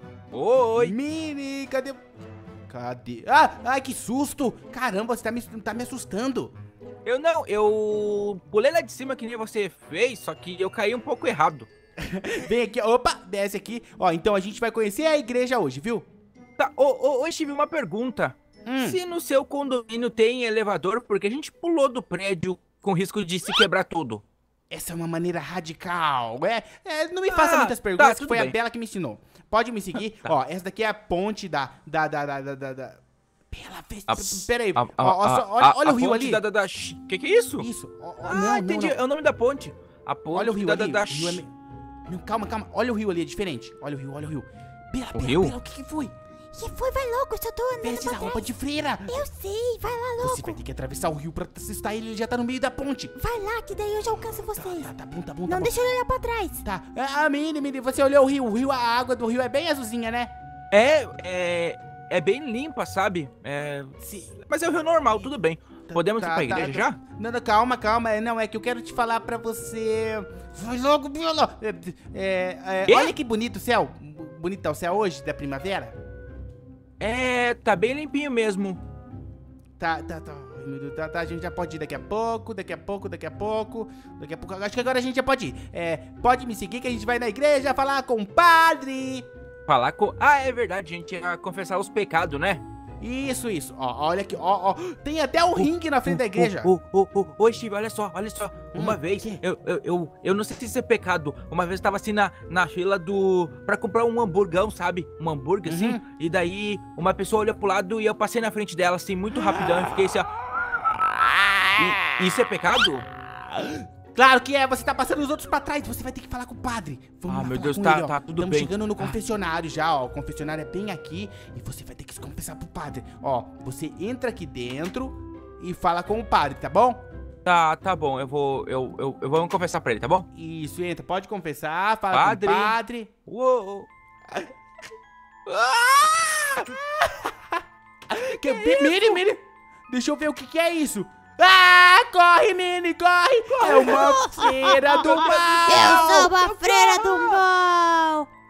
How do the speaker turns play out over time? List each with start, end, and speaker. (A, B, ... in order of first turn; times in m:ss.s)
0:00.3-0:01.0 A
0:00.8-0:02.0 B
0:02.7-0:06.5 B
0:07.0-0:11.7 A
0:12.0-0:16.1 B
0:16.6-0:24.2 A
0:18.7-0:19.0 B
0:24.7-0:36.4 B
0:27.3-0:28.6 A
0:30.0-0:30.3 A
0:34.1-0:37.7 A
0:37.6-0:39.0 B
0:38.2-0:41.4 A
0:40.3-0:41.5 B
0:42.1-0:46.1 B
0:45.1-0:45.6 A
0:46.5-0:48.5 C
0:47.8-0:49.2 B
0:49.1-0:50.6 C
0:50.2-0:53.1 B
0:53.2-0:54.9 C
0:54.5-0:55.8 B
0:55.5-0:56.6 C
0:56.6-1:00.3 B
1:00.7-1:07.0 A
1:04.0-1:04.4 B
1:05.9-1:15.9 B
1:12.9-1:13.1 A
1:17.0-1:18.8 A
1:19.8-1:29.3 B
1:29.7-1:32.6 A
1:33.0-1:36.7 B
1:35.6-1:50.3 A
1:38.7-1:39.4 B
1:45.7-1:46.0 B
1:49.4-1:49.8 B
1:51.4-1:51.8 B
1:51.8-1:53.1 A
1:53.5-2:07.0 B
1:57.3-1:59.2 A
2:07.4-2:10.3 A
2:10.3-2:13.1 B
2:12.1-2:13.9 A
2:15.5-2:16.6 A
2:16.6-2:26.3 B
2:18.4-2:19.2 A
2:23.5-2:27.4 A
2:23.9-2:24.3 C
2:25.6-2:28.3 C